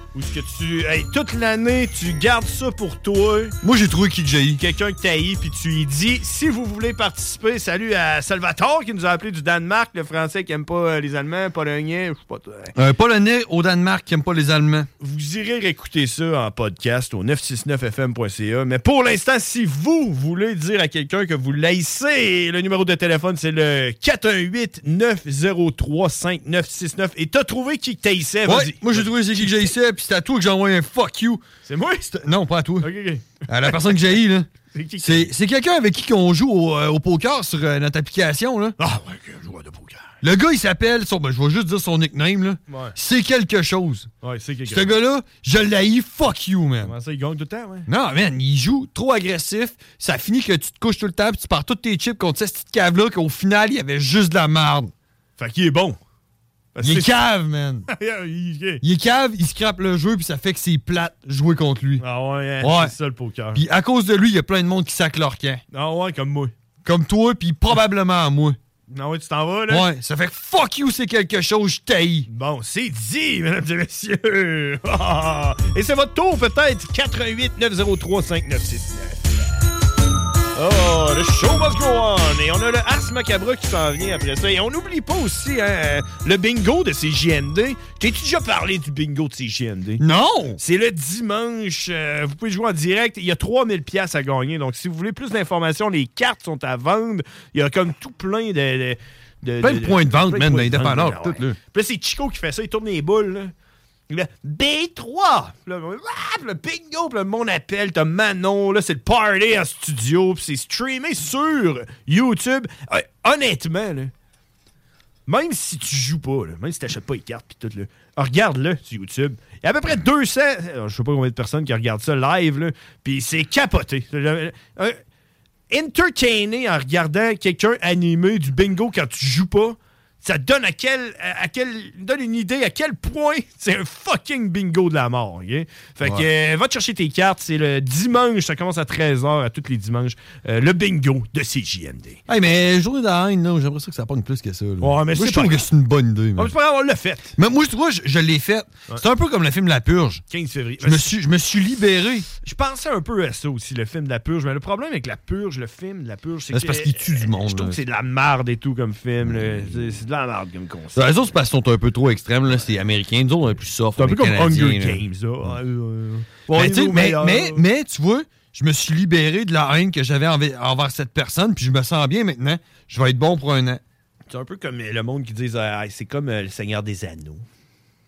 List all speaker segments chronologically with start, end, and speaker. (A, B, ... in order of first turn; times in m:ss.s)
0:00.1-0:03.6 A
0:03.6-0:04.6 B
0:04.6-0:12.7 A
0:12.8-0:14.9 B
0:15.0-0:29.7 A
0:28.5-0:31.4 B
0:31.7-0:32.1 A
0:32.1-0:32.9 B
0:32.8-0:34.2 A
0:33.5-0:34.5 B
0:34.7-0:35.3 A
0:35.0-0:38.8 B
0:38.8-0:40.2 A
0:40.2-0:44.1 B
0:42.7-0:43.0 A
0:44.2-0:45.0 A
0:44.7-0:47.0 B
0:46.8-0:47.9 A
0:47.9-0:54.9 B
0:55.4-0:56.0 A
0:56.8-0:57.1 A
0:56.8-0:57.9 B
0:57.9-0:58.8 A
0:58.8-1:02.1 B
1:02.0-1:03.6 A
1:02.6-1:02.9 B
1:03.5-1:05.6 B
1:05.7-1:06.5 A
1:06.8-1:08.6 B
1:08.9-1:09.9 A
1:09.7-1:12.3 B
1:12.3-1:19.5 A
1:20.6-1:30.0 A
1:30.0-1:30.6 B
1:30.6-1:43.5 A
1:39.6-1:41.6 B
1:44.1-1:54.1 A
1:55.3-2:05.0 A
2:05.7-2:22.2 A
2:22.3-2:26.5 B
2:24.8-2:25.7 A
2:26.4-2:27.4 A
2:27.4-2:30.2 B
2:30.3-2:31.1 A
2:30.8-2:32.3 B
2:32.4-2:41.2 A
2:36.5-2:37.8 B
2:41.0-2:45.0 B
2:44.0-2:47.6 A
2:46.5-2:53.8 B
2:54.3-2:57.4 A